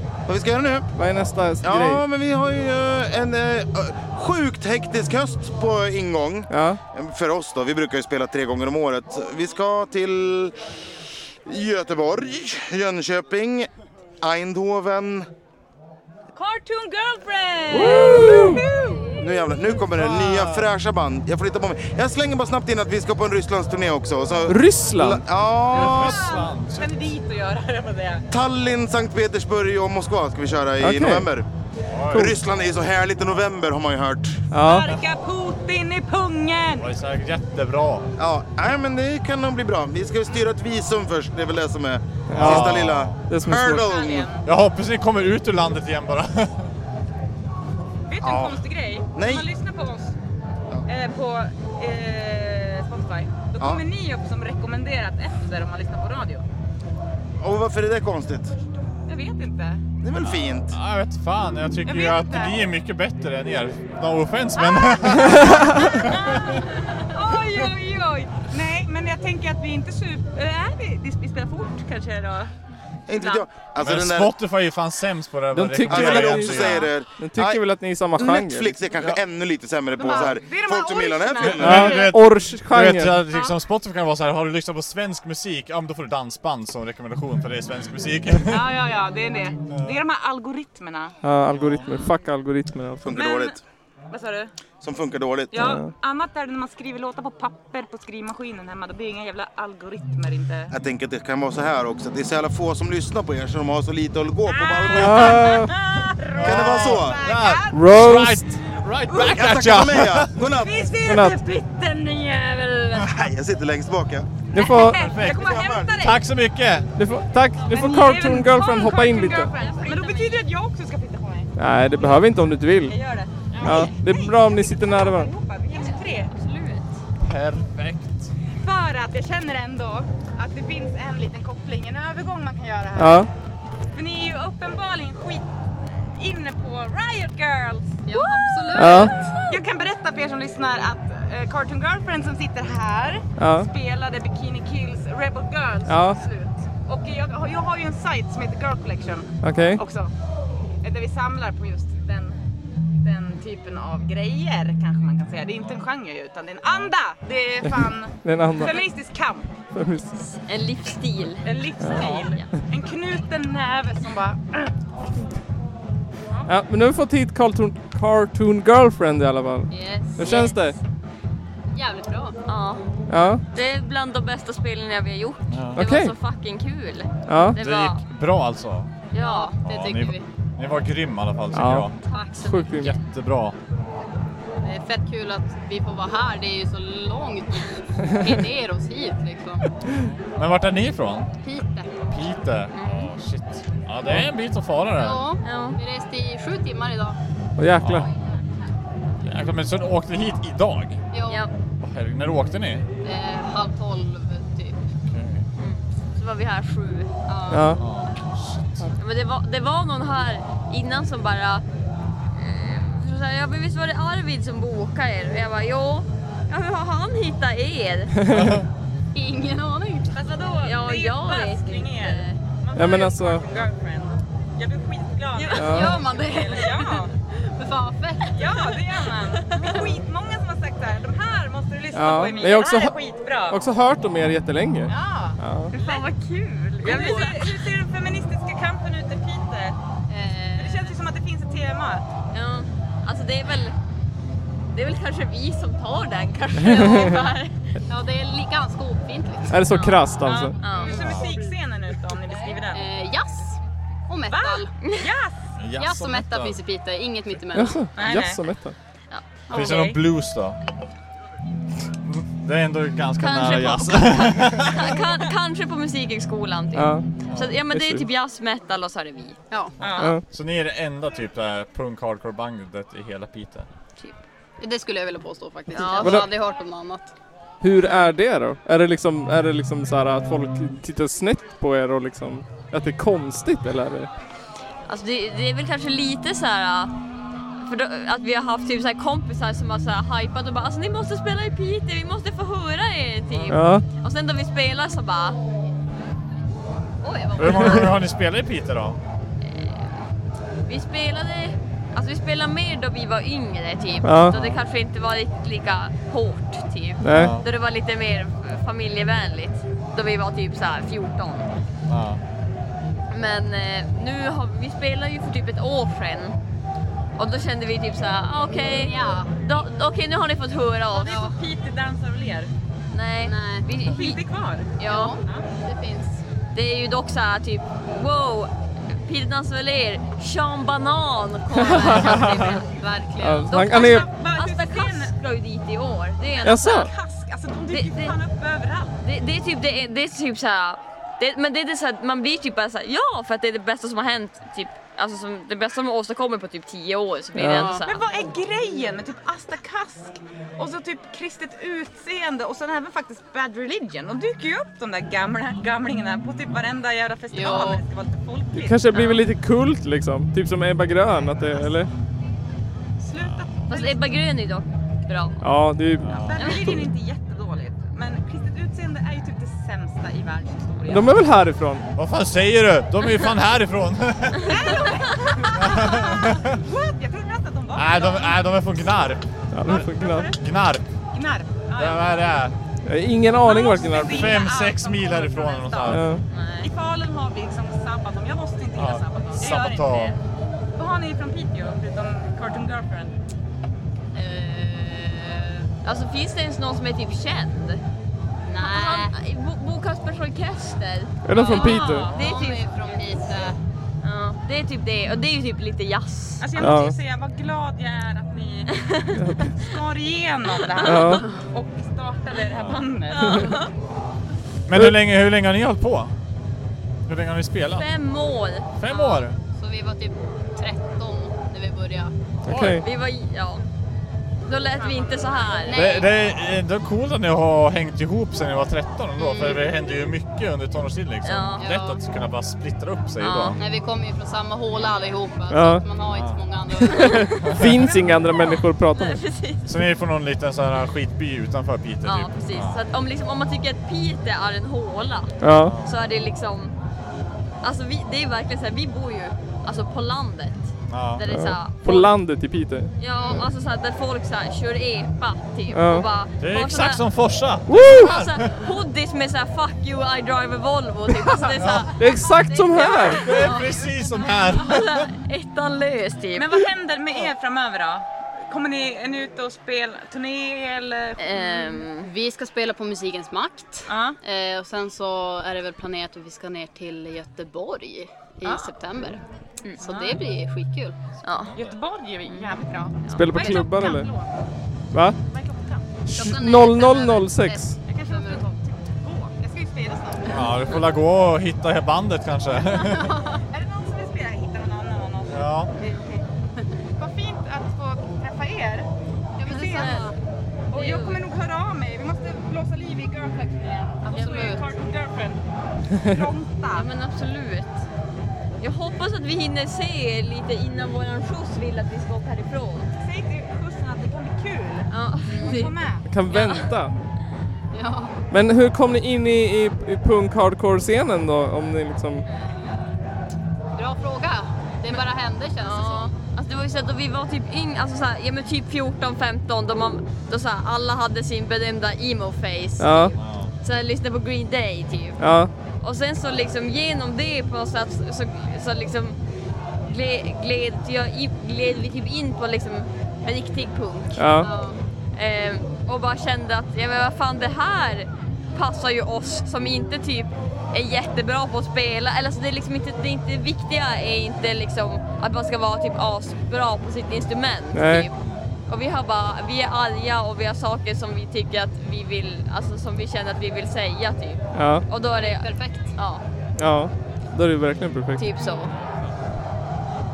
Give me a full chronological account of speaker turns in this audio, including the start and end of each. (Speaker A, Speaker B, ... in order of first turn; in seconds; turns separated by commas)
Speaker A: 0.3-0.9, Speaker B: 0.9-2.0, Speaker A: 1.6-10.5, Speaker B: 6.5-6.8, Speaker A: 11.4-13.7, Speaker A: 14.2-15.3, Speaker C: 16.3-19.5, Speaker B: 17.7-18.6, Speaker A: 19.2-26.4, Speaker D: 19.9-20.7, Speaker B: 24.5-25.2, Speaker D: 25.7-26.9, Speaker C: 25.7-28.2, Speaker A: 28.3-31.4, Speaker B: 30.8-31.3, Speaker D: 31.9-32.3, Speaker A: 32.1-34.4, Speaker B: 34.5-34.9, Speaker C: 34.5-36.9, Speaker D: 36.8-38.0, Speaker A: 38.2-44.3, Speaker B: 42.3-42.7, Speaker D: 42.3-43.2, Speaker B: 43.3-44.0, Speaker C: 43.6-44.4, Speaker D: 44.4-46.7, Speaker C: 48.1-50.1, Speaker A: 48.2-48.6, Speaker A: 49.1-49.5, Speaker C: 50.9-56.4, Speaker A: 57.4-58.5, Speaker C: 59.0-59.8, Speaker A: 60.0-60.8, Speaker D: 60.2-66.6, Speaker C: 61.8-62.6, Speaker C: 64.6-72.5, Speaker A: 73.1-74.3, Speaker C: 73.1-73.5, Speaker D: 73.8-76.9, Speaker B: 75.5-78.8, Speaker A: 75.8-77.6, Speaker A: 78.1-82.1, Speaker C: 80.0-82.1, Speaker D: 81.4-88.6, Speaker B: 81.6-83.2, Speaker C: 88.5-91.1, Speaker D: 89.7-90.0, Speaker B: 91.2-93.1, Speaker D: 91.5-91.9, Speaker A: 93.0-93.6, Speaker C: 93.1-93.6, Speaker C: 94.1-94.5, Speaker A: 94.8-95.7, Speaker C: 95.5-100.7, Speaker B: 95.6-95.9, Speaker A: 100.7-105.4, Speaker C: 104.5-108.3, Speaker B: 105.0-105.8, Speaker D: 106.3-110.3, Speaker A: 106.4-107.3, Speaker B: 107.7-108.5, Speaker C: 109.1-109.3, Speaker A: 109.1-111.0, Speaker C: 110.5-113.2, Speaker B: 111.0-111.4, Speaker A: 113.0-114.3, Speaker B: 114.5-115.0, Speaker C: 114.5-116.2, Speaker D: 114.9-116.9, Speaker A: 115.2-115.9, Speaker B: 117.0-119.5, Speaker C: 117.7-121.5, Speaker E: 119.5-120.5, Speaker B: 121.6-123.0, Speaker C: 122.8-126.3, Speaker B: 123.6-125.3, Speaker E: 125.7-126.9, Speaker D: 127.2-128.3, Speaker C: 128.6-133.3, Speaker B: 133.0-133.3, Speaker C: 133.9-135.4, Speaker C: 136.2-150.1, Speaker F: 138.1-139.6, Speaker B: 138.7-139.1, Speaker B: 143.4-143.7, Speaker B: 145.9-146.2, Speaker B: 149.4-149.8, Speaker C: 150.8-152.4, Speaker C: 153.0-159.5, Speaker B: 158.2-158.8, Speaker B: 159.7-160.1, Speaker E: 160.4-162.4, Speaker C: 161.4-164.7, Speaker B: 161.8-162.3, Speaker B: 166.5-170.8, Speaker F: 169.7-170.6, Speaker E: 170.2-170.5, Speaker F: 171.7-172.4, Speaker E: 172.5-172.8, Speaker B: 173.1-173.4, Speaker E: 173.5-178.0, Speaker D: 175.5-175.8, Speaker B: 175.8-176.1, Speaker B: 177.3-177.6, Speaker D: 177.5-178.9, Speaker E: 179.1-179.5, Speaker F: 179.1-180.2, Speaker D: 179.6-182.0, Speaker B: 181.5-182.9, Speaker E: 182.1-182.6, Speaker D: 182.7-183.6, Speaker F: 184.6-189.7, Speaker D: 189.9-191.3, Speaker F: 191.4-192.2, Speaker D: 192.1-195.2, Speaker E: 192.7-193.1, Speaker F: 194.9-197.2, Speaker E: 195.4-195.8, Speaker B: 197.6-198.1, Speaker D: 197.8-198.1, Speaker D: 199.2-201.0, Speaker F: 201.1-201.5, Speaker D: 201.8-202.8, Speaker F: 203.0-204.9, Speaker D: 205.1-205.5, Speaker E: 205.6-207.1, Speaker F: 207.3-207.8, Speaker B: 207.5-207.8, Speaker D: 207.7-208.9, Speaker E: 209.0-211.6, Speaker E: 212.3-218.2, Speaker B: 218.3-218.6, Speaker D: 218.3-218.6, Speaker F: 219.1-220.2, Speaker C: 220.1-227.1, Speaker E: 220.6-222.4, Speaker B: 222.7-223.4, Speaker E: 225.3-226.1, Speaker B: 225.5-226.0, Speaker F: 225.6-228.6, Speaker C: 228.3-233.6, Speaker E: 229.3-229.9, Speaker B: 231.9-235.7, Speaker C: 234.9-236.1, Speaker E: 235.7-237.6, Speaker C: 236.8-239.8, Speaker F: 240.1-240.9, Speaker C: 240.6-242.1, Speaker E: 242.3-243.8, Speaker E: 244.7-247.6, Speaker F: 247.9-249.7, Speaker B: 249.5-250.6, Speaker E: 249.7-251.2, Speaker C: 250.2-252.9, Speaker D: 250.9-251.3, Speaker F: 252.7-254.7, Speaker C: 254.3-255.3, Speaker D: 255.6-256.6, Speaker F: 255.8-257.9, Speaker B: 257.5-258.7, Speaker C: 257.9-258.4, Speaker F: 259.5-259.8, Speaker C: 259.5-260.0, Speaker D: 259.5-260.6, Speaker D: 262.0-264.9, Speaker E: 263.2-270.1, Speaker B: 266.7-267.1, Speaker D: 267.2-267.6, Speaker B: 267.7-268.1, Speaker F: 269.5-269.8, Speaker D: 269.8-273.7, Speaker C: 269.8-270.1, Speaker F: 274.6-277.1, Speaker E: 275.7-276.3, Speaker B: 276.0-276.3, Speaker B: 277.6-284.1, Speaker E: 284.9-286.9, Speaker E: 287.6-295.4, Speaker B: 293.5-293.8, Speaker E: 297.0-297.9, Speaker D: 297.4-299.0, Speaker E: 299.4-299.8, Speaker E: 300.6-311.5, Speaker B: 304.0-304.5, Speaker D: 304.3-304.6, Speaker B: 307.0-307.4, Speaker D: 307.0-307.5, Speaker D: 311.9-312.2, Speaker E: 313.1-316.4, Speaker E: 317.2-321.1, Speaker F: 318.5-319.4, Speaker C: 320.9-322.5, Speaker F: 321.1-321.3, Speaker E: 322.9-324.2, Speaker F: 323.2-323.7, Speaker C: 323.8-325.5, Speaker E: 324.8-325.1, Speaker F: 324.8-326.2, Speaker E: 326.5-332.7, Speaker B: 331.7-332.2, Speaker F: 332.7-333.6, Speaker B: 333.2-334.1, Speaker E: 333.5-336.9, Speaker C: 333.6-335.1, Speaker C: 336.3-339.0, Speaker B: 336.4-336.9, Speaker E: 337.7-338.1, Speaker E: 339.0-348.0, Speaker B: 347.4-347.7, Speaker F: 347.4-347.8, Speaker C: 347.8-359.2, Speaker F: 357.3-357.8, Speaker B: 358.5-361.9, Speaker C: 363.0-364.1, Speaker D: 363.2-363.4, Speaker E: 363.7-365.5, Speaker B: 365.4-366.8, Speaker D: 366.0-366.4, Speaker C: 366.2-371.2, Speaker B: 370.9-371.9, Speaker D: 371.9-374.5, Speaker C: 374.4-378.9, Speaker E: 374.6-375.1, Speaker D: 375.5-376.6, Speaker D: 377.7-379.8, Speaker B: 379.5-380.3, Speaker C: 379.6-380.4, Speaker D: 380.3-380.8, Speaker C: 381.1-382.1, Speaker D: 381.8-382.5, Speaker B: 382.8-384.4, Speaker C: 383.4-386.0, Speaker D: 384.0-386.1, Speaker B: 385.9-386.2, Speaker E: 386.3-386.7, Speaker C: 386.6-390.1, Speaker D: 388.7-390.1, Speaker C: 390.8-393.1, Speaker F: 394.1-395.7, Speaker E: 395.8-397.8, Speaker F: 398.4-399.1, Speaker E: 398.6-403.3, Speaker B: 401.2-402.1, Speaker C: 401.5-402.5, Speaker F: 401.5-403.6, Speaker E: 404.0-406.7, Speaker C: 406.4-408.8, Speaker B: 406.6-406.9, Speaker E: 408.8-409.2, Speaker B: 409.1-409.5, Speaker C: 409.5-413.6, Speaker E: 410.5-411.1, Speaker B: 410.8-411.2, Speaker D: 412.5-412.8, Speaker E: 413.1-413.7, Speaker D: 414.6-416.1, Speaker D: 417.1-417.9, Speaker E: 417.7-419.2, Speaker D: 418.8-419.4, Speaker F: 419.5-422.1, Speaker B: 422.4-422.8, Speaker D: 422.5-422.8, Speaker E: 422.7-423.6, Speaker E: 424.4-425.9, Speaker C: 424.7-425.7, Speaker F: 425.6-426.1, Speaker D: 425.7-433.6, Speaker E: 429.2-429.6, Speaker E: 431.2-431.7, Speaker F: 431.6-432.0, Speaker E: 433.2-433.6, Speaker F: 433.6-437.5, Speaker B: 435.5-435.8, Speaker D: 436.1-436.4, Speaker B: 436.9-439.2, Speaker E: 436.9-437.3, Speaker D: 437.4-437.7, Speaker E: 438.4-439.6, Speaker D: 439.6-442.8, Speaker E: 442.0-446.7, Speaker B: 445.4-445.8, Speaker D: 445.5-445.9, Speaker E: 447.6-452.2, Speaker D: 450.9-451.2, Speaker B: 451.3-452.9, Speaker E: 453.0-457.0, Speaker B: 455.7-456.1, Speaker D: 456.4-458.6, Speaker B: 457.7-458.1, Speaker E: 457.8-466.6, Speaker D: 461.5-461.9, Speaker B: 461.9-463.4, Speaker D: 463.1-465.1, Speaker C: 466.3-471.4, Speaker E: 471.2-472.1, Speaker F: 471.4-479.2, Speaker C: 473.9-474.2, Speaker C: 478.4-478.7, Speaker F: 479.8-480.9, Speaker C: 479.8-480.2, Speaker E: 481.2-481.5, Speaker D: 481.5-481.8, Speaker C: 481.5-484.3, Speaker E: 482.3-482.5, Speaker B: 483.1-484.1, Speaker B: 484.9-485.2, Speaker C: 485.3-485.9, Speaker B: 486.1-487.8, Speaker F: 486.1-488.6, Speaker C: 487.9-490.3, Speaker D: 490.3-493.1, Speaker F: 492.9-493.4, Speaker C: 493.5-496.2, Speaker D: 495.3-495.7, Speaker C: 497.0-498.9, Speaker F: 499.4-500.1, Speaker C: 499.4-500.0, Speaker E: 499.7-500.1, Speaker E: 500.7-501.2, Speaker C: 500.7-505.4, Speaker F: 504.0-504.6, Speaker E: 504.1-504.5, Speaker C: 505.9-506.9, Speaker E: 506.7-507.8, Speaker E: 508.6-512.9, Speaker C: 513.0-514.9, Speaker E: 514.9-515.8, Speaker F: 515.3-515.7, Speaker C: 515.4-516.0, Speaker B: 516.1-516.9, Speaker E: 516.3-516.7, Speaker F: 517.7-518.2, Speaker B: 518.3-522.2, Speaker F: 523.8-526.1, Speaker E: 525.6-539.2, Speaker B: 532.8-533.1, Speaker D: 533.2-533.5, Speaker B: 535.2-535.5, Speaker E: 539.9-544.5, Speaker B: 544.2-544.5, Speaker F: 544.4-544.8, Speaker E: 545.1-558.1, Speaker B: 557.7-558.1, Speaker E: 558.7-566.2, Speaker B: 564.5-564.8, Speaker F: 565.1-566.0, Speaker B: 566.5-568.2, Speaker E: 568.1-568.7